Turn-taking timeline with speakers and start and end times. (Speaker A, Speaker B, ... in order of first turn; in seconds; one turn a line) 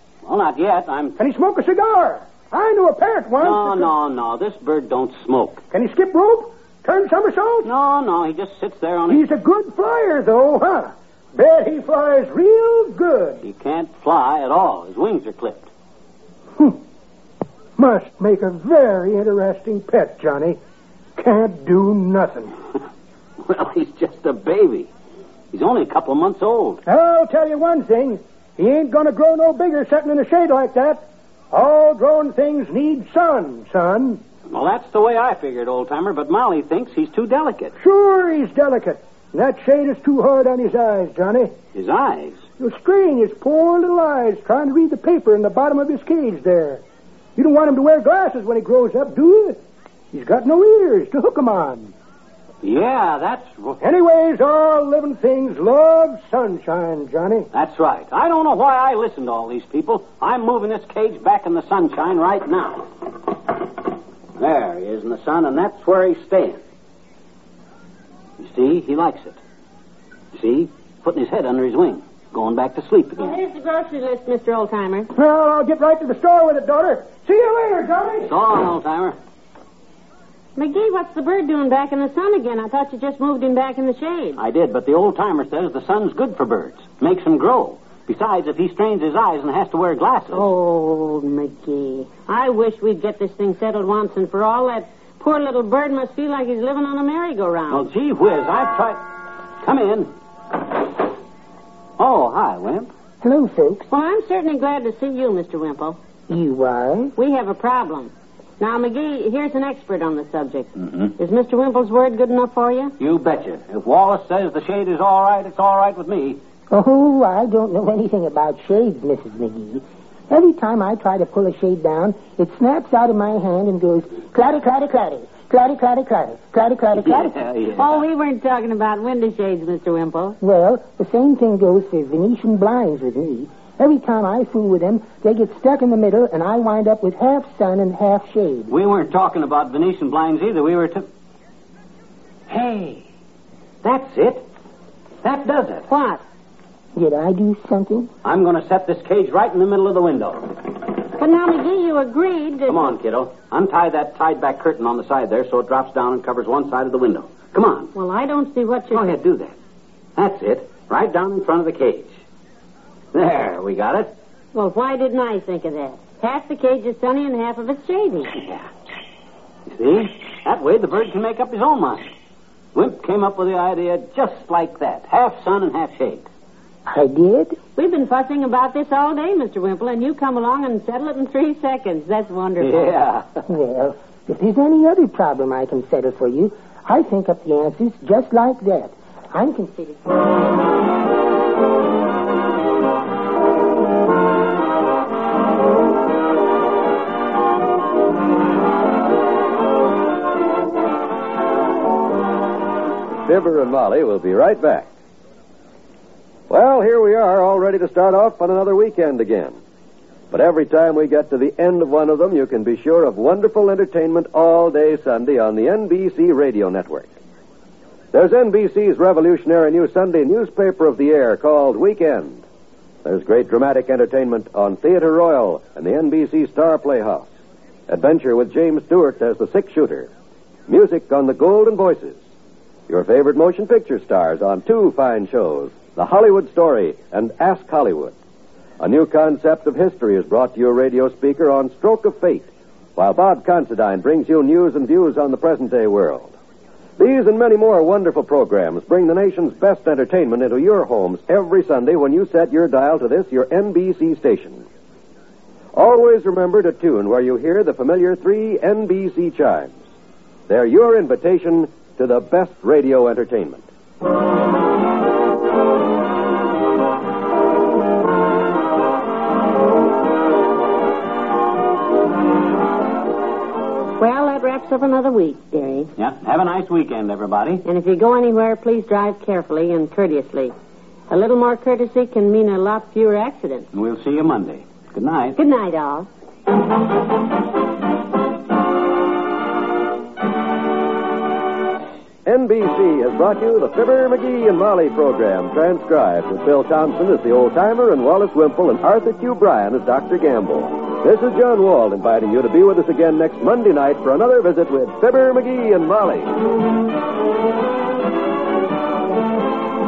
Speaker A: 0.2-1.2
Speaker B: 1.2-3.9
Speaker A: 3.4-5.6
Speaker B: 5.7-7.7
Speaker A: 7.6-9.2
Speaker B: 9.1-13.4
Speaker A: 13.4-15.7
Speaker B: 17.8-20.6
Speaker B: 21.2-22.5
Speaker A: 23.4-24.9
Speaker A: 25.5-26.8
Speaker B: 26.9-34.2
Speaker A: 34.5-37.7
Speaker B: 37.8-41.5
Speaker A: 41.8-42.5
Speaker B: 42.6-46.8
Speaker B: 47.4-49.6
Speaker B: 50.1-51.9
Speaker A: 52.6-53.8
Speaker B: 53.8-57.5
Speaker A: 57.5-62.9
Speaker A: 64.4-66.6
Speaker A: 68.4-69.4
Speaker A: 70.3-73.4
Speaker C: 73.2-75.1
Speaker B: 75.1-78.3
Speaker A: 78.3-79.2
Speaker C: 80.6-84.4
Speaker A: 84.4-90.5
Speaker C: 90.3-97.9
Speaker A: 97.7-99.0
Speaker A: 99.6-100.1
Speaker A: 102.0-102.9
Speaker D: 103.2-103.9
Speaker C: 103.9-106.0
Speaker D: 106.3-107.1
Speaker C: 107.2-112.9
Speaker A: 113.0-116.4
Speaker D: 116.7-127.4
Speaker A: 127.0-128.0
Speaker C: 127.8-130.4
Speaker D: 130.4-138.7
Speaker A: 138.7-141.1
Speaker A: 142.5-143.0
Speaker A: 143.8-144.4
Speaker A: 145.2-145.9
Speaker C: 145.9-146.2
Speaker D: 147.0-148.1
Speaker A: 148.2-150.5
Speaker C: 151.1-152.9
Speaker A: 152.7-157.9
Speaker C: 157.9-159.2
Speaker A: 158.9-159.6
Speaker A: 160.2-162.2
Speaker A: 163.1-164.1
Speaker C: 164.5-168.3
Speaker A: 168.4-168.7
Speaker A: 169.7-172.1
Speaker A: 172.8-176.3
Speaker D: 176.9-177.6
Speaker C: 177.8-183.0
Speaker A: 182.6-183.3
Speaker D: 183.5-190.0
Speaker E: 203.2-204.9
Speaker E: 206.5-209.6
Speaker E: 210.3-217.1
Speaker E: 218.1-222.4
Speaker E: 223.1-227.3
Speaker E: 227.9-230.1
Speaker E: 230.7-232.2
Speaker E: 232.9-238.2
Speaker E: 238.8-246.3
Speaker E: 247.0-254.7
Speaker E: 255.7-259.8
Speaker E: 260.5-263.7
Speaker C: 274.0-275.9
Speaker A: 276.0-277.6
Speaker C: 277.6-280.5
Speaker C: 281.1-283.7
Speaker A: 283.7-285.4
Speaker C: 285.4-286.1
Speaker E: 292.3-306.3